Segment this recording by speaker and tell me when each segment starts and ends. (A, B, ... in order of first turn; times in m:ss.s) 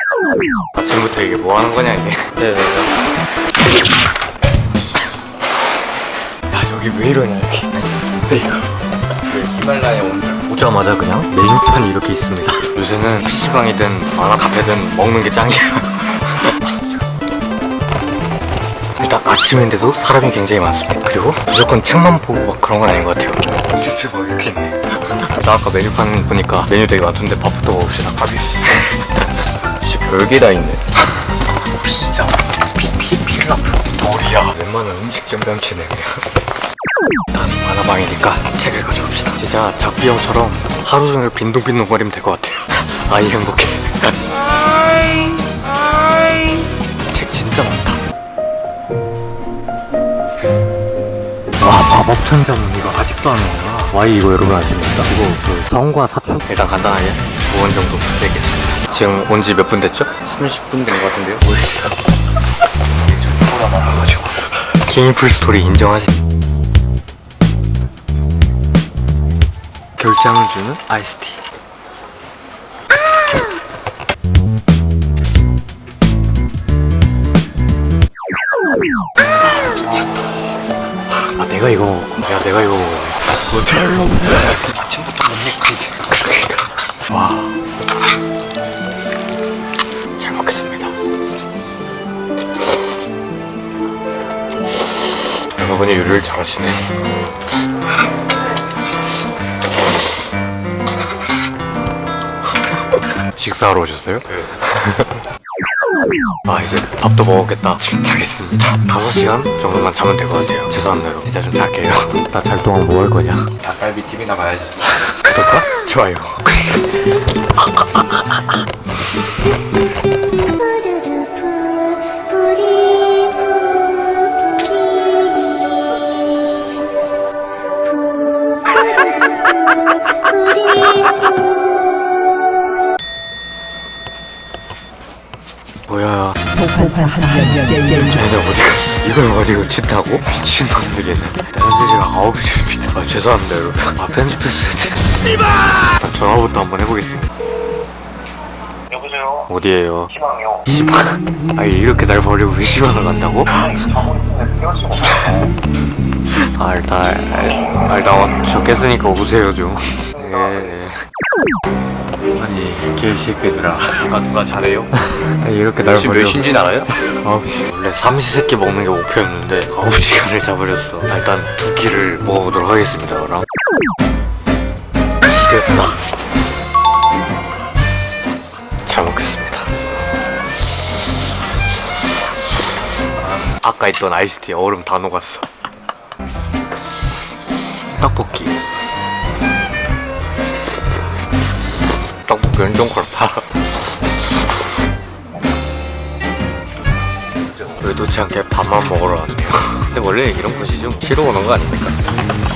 0:00.8-0:03.0 A
0:06.5-0:09.4 A
0:09.3-0:10.4 B
0:10.5-0:17.0 A
0:19.0-0:36.2 A
0:37.3-0:44.6 A
0:47.1-0:48.0 A
0:51.6-1:01.9 A
1:03.6-1:06.2 A
1:10.0-1:11.4 A
1:21.4-1:27.6 A
1:30.2-1:31.0 A
1:35.6-1:36.9 A
1:43.4-1:45.2 A
1:46.5-1:53.5 A
1:53.6-1:55.0 B
1:55.2-1:56.9 A
1:57.6-1:58.4 A
2:15.9-2:27.3 A
2:29.4-2:34.2 A
2:34.7-2:35.5 A
2:36.6-2:41.0 A
2:42.4-2:44.1 A
2:44.0-2:44.9 B
2:45.0-2:53.5 A
2:45.8-2:46.9 B
2:55.3-2:56.0 A
2:58.9-2:59.7 A
3:03.6-3:05.5 A
3:08.0-3:08.6 A
3:12.2-3:13.4 A
3:17.8-3:22.0 A